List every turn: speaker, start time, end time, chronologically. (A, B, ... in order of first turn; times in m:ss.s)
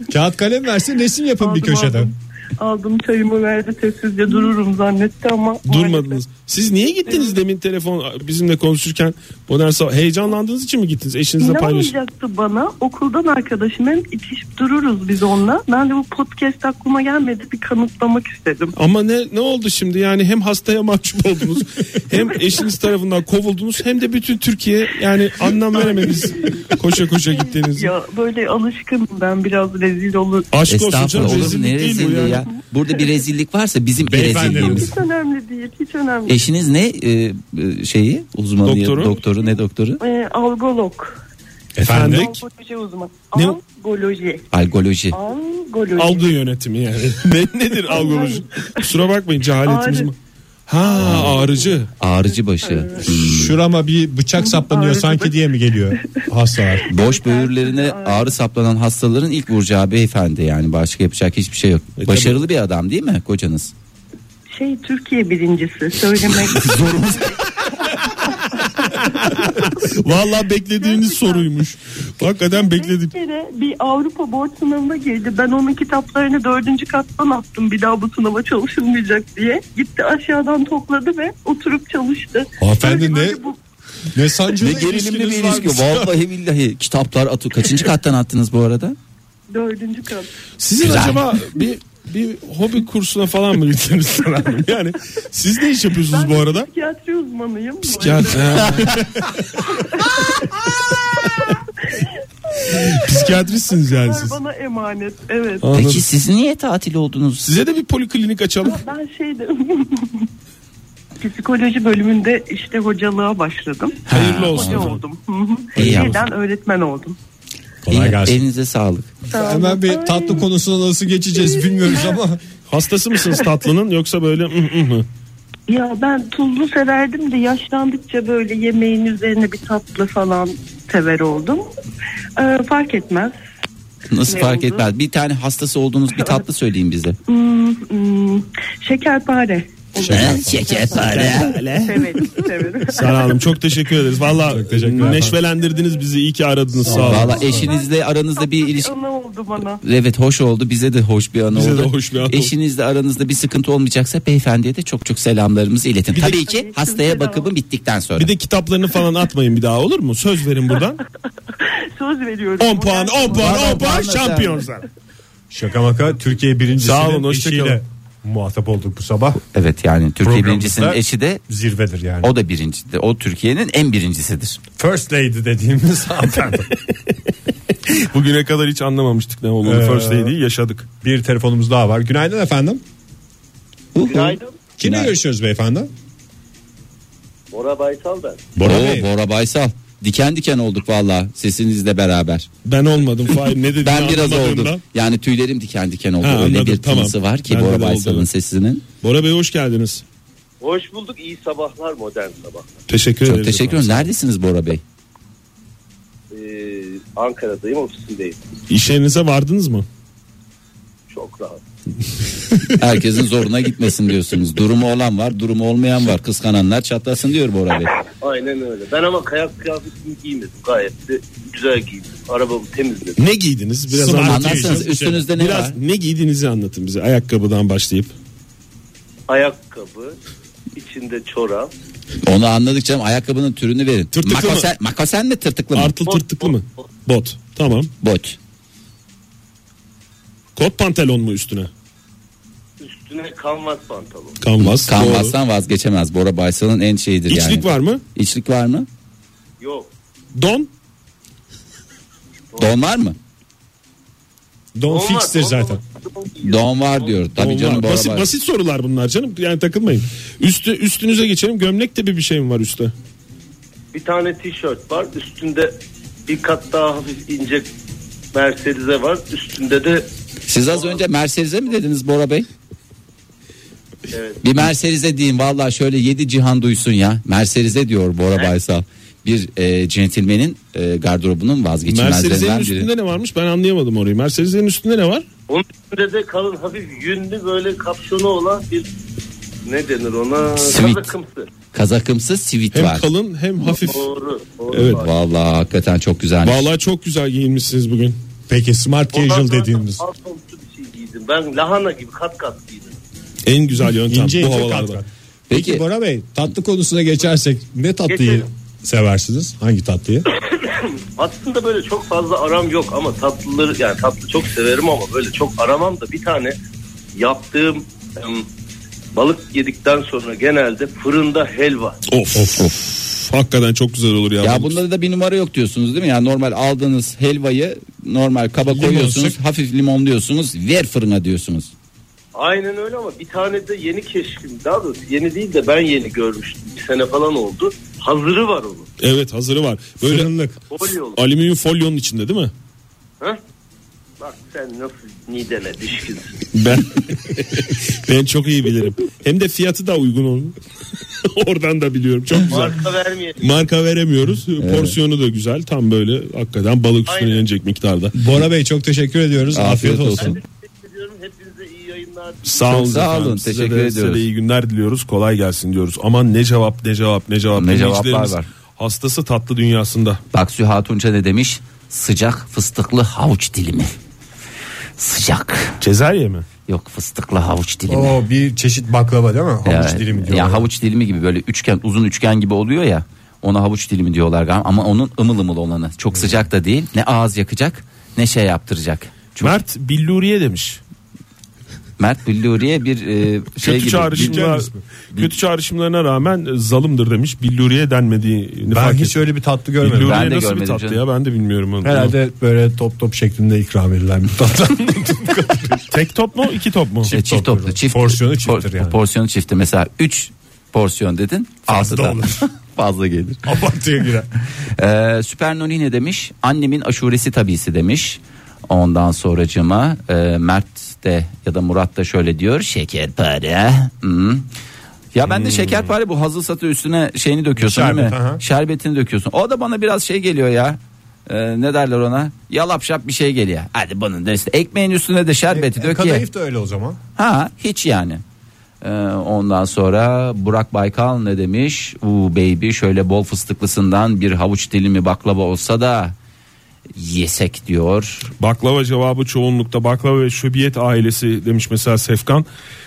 0:00.1-0:02.1 A
0:01.4-0:06.2 B
0:05.7-0:11.9 C
0:07.1-0:07.4 B
0:11.4-0:18.7 B
0:18.8-0:27.9 C
0:25.7-0:26.6 B
0:27.3-0:30.5 B
0:30.5-0:32.5 C
0:30.7-0:34.9 D
0:32.2-0:32.6 B
0:34.0-0:34.9 A
0:34.4-0:36.4 B
0:36.3-0:40.0 D
0:38.6-0:39.2 C
0:40.0-0:41.2 B
0:41.8-0:42.3 A
0:41.9-0:42.4 C
0:41.9-0:44.4 B
0:44.5-0:45.2 D
0:45.1-0:46.3 B
0:46.0-0:50.2 C
0:47.9-0:48.9 B
0:49.6-0:50.1 B
0:50.7-0:51.9 C
0:50.8-0:51.7 B
0:52.0-0:53.6 D
0:52.6-0:53.0 B
0:53.0-0:56.9 A
0:54.4-0:55.4 B
0:56.8-0:58.3 B
0:56.9-1:03.7 D
1:02.0-1:02.4 C
1:04.5-1:07.3 B
1:06.6-1:07.2 C
1:06.7-1:07.2 D
1:07.8-1:09.8 B
1:09.7-1:13.1 C
1:10.8-1:11.5 B
1:12.2-1:23.6 B
1:22.6-1:23.4 A
1:24.1-1:26.1 A
1:24.6-1:29.0 D
1:29.5-1:30.3 B
1:30.6-1:36.7 C
1:30.8-1:31.2 D
1:36.1-1:39.0 B
1:37.9-1:39.1 C
1:39.6-1:40.6 B
1:41.2-1:45.7 B
1:42.7-1:44.4 C
1:45.6-1:46.0 C
1:45.7-1:47.5 D
1:47.4-1:48.8 C
1:48.6-1:50.3 B
1:51.2-1:57.2 B
1:54.1-1:54.9 D
1:54.1-1:55.0 C
1:55.8-1:56.2 D
1:55.8-1:56.1 C
1:57.8-1:58.4 A
1:57.9-1:59.1 D
1:59.3-2:00.4 B
1:59.3-2:02.4 A
2:01.5-2:02.2 B
2:02.7-2:05.1 C
2:05.7-2:11.6 B
2:12.4-2:13.4 B
2:14.1-2:17.2 D
2:14.3-2:14.9 B
2:16.2-2:16.4 B
2:17.3-2:23.4 B
2:20.0-2:20.6 A
2:20.1-2:21.6 D
2:21.0-2:22.2 C
2:22.9-2:27.7 C
2:24.5-2:25.4 A
2:26.9-2:27.7 A
2:26.9-2:28.9 D
2:26.9-2:29.8 B
2:29.8-2:38.3 D
2:31.5-2:32.5 C
2:36.2-2:37.5 B
2:38.2-2:41.0 C
2:41.6-2:44.0 B
2:42.6-2:44.8 C
2:43.3-2:44.6 D
2:45.5-2:49.4 A
2:46.8-2:47.8 C
2:49.5-2:51.4 D
2:50.2-2:52.3 A
2:52.2-2:54.6 D
2:54.8-2:56.7 A
2:57.9-3:00.9 C
2:59.6-3:00.3 A
3:01.0-3:02.8 A
3:03.9-3:05.1 D
3:04.0-3:04.6 E
3:04.8-3:05.9 A
3:07.5-3:08.5 E
3:08.6-3:09.1 A
3:08.6-3:12.5 D
3:12.7-3:14.8 C
3:13.8-3:18.8 D
3:16.2-3:18.3 C
3:19.0-3:20.0 C
3:20.6-3:22.8 E
3:22.9-3:24.1 C
3:23.2-3:24.8 D
3:26.3-3:28.4 E
3:28.7-3:29.9 C
3:31.1-3:31.6 E
3:32.8-3:38.0 D
3:38.2-3:43.2 E
3:43.2-3:48.1 C
3:43.9-3:45.3 A
3:44.1-3:45.8 D
3:49.3-3:50.2 E
3:50.7-3:51.7 E
3:52.2-3:56.0 D
3:54.1-3:54.7 C
3:55.7-3:57.9 C
3:56.1-3:56.9 E
3:58.0-3:58.4 D
4:00.6-4:01.7 C
4:02.8-4:04.4 E
4:04.4-4:05.4 C
4:04.6-4:08.9 D
4:07.3-4:08.0 C
4:09.6-4:09.9 E
4:10.3-4:10.7 C
4:12.6-4:13.2 D
4:14.8-4:15.8 A
4:14.9-4:17.2 E
4:16.4-4:18.3 D
4:17.4-4:22.9 C
4:23.9-4:25.7 E
4:26.3-4:27.7 E
4:28.3-4:30.1 E
4:30.5-4:32.5 D
4:30.7-4:31.0 E
4:34.1-4:34.4 E
4:34.4-4:42.9 D
4:41.9-4:45.3 C
4:45.5-4:48.9 E
4:49.7-4:51.5 E
4:50.6-4:51.1 D
4:51.7-4:53.1 D
4:52.7-4:54.1 C
4:53.6-4:55.1 E
4:54.7-4:55.0 C
4:54.7-4:56.7 D
4:56.4-4:58.2 C
4:58.5-5:00.0 A
4:59.1-5:03.0 E
5:03.5-5:05.0 C
5:04.1-5:10.3 A
5:05.5-5:05.8 D
5:08.1-5:08.4 E
5:10.6-5:16.6 E
5:17.2-5:18.5 E
5:19.1-5:22.0 E
5:22.1-5:24.8 C
5:24.4-5:31.7 D
5:28.7-5:29.4 A
5:32.4-5:38.9 E
5:39.0-5:40.3 C
5:40.0-5:40.6 A
5:40.7-5:41.2 E
5:41.2-5:42.5 C
5:44.2-5:46.4 E
5:46.5-5:50.6 C
5:51.2-5:52.8 C
5:52.5-5:53.5 E
5:53.4-5:58.2 C
5:54.6-5:55.0 D
5:57.1-5:57.5 E
5:58.2-6:00.4 A
5:59.5-6:00.4 D
6:00.2-6:02.6 E
6:02.4-6:10.2 C
6:02.7-6:04.2 D
6:07.6-6:08.5 D
6:10.3-6:13.9 D
6:15.0-6:15.8 D
6:15.8-6:16.5 C
6:16.7-6:18.2 D
6:17.9-6:20.7 A
6:19.6-6:29.6 D
6:29.4-6:30.8 C
6:32.0-6:34.5 D
6:33.6-6:39.1 C
6:34.1-6:34.8 A
6:38.7-6:40.2 A
6:39.8-6:42.2 C
6:40.0-6:41.0 D
6:41.8-6:45.9 A
6:45.9-6:47.1 C
6:47.0-6:49.0 A
6:47.1-6:53.4 D
6:51.7-6:52.5 A
6:53.4-6:54.3 A
6:54.8-7:04.5 D
7:05.1-7:16.2 D
7:05.3-7:05.8 A
7:07.6-7:08.4 A
7:15.5-7:17.0 A
7:17.2-7:18.2 D
7:18.8-7:26.2 D
7:26.9-7:28.3 D
7:28.4-7:32.5 C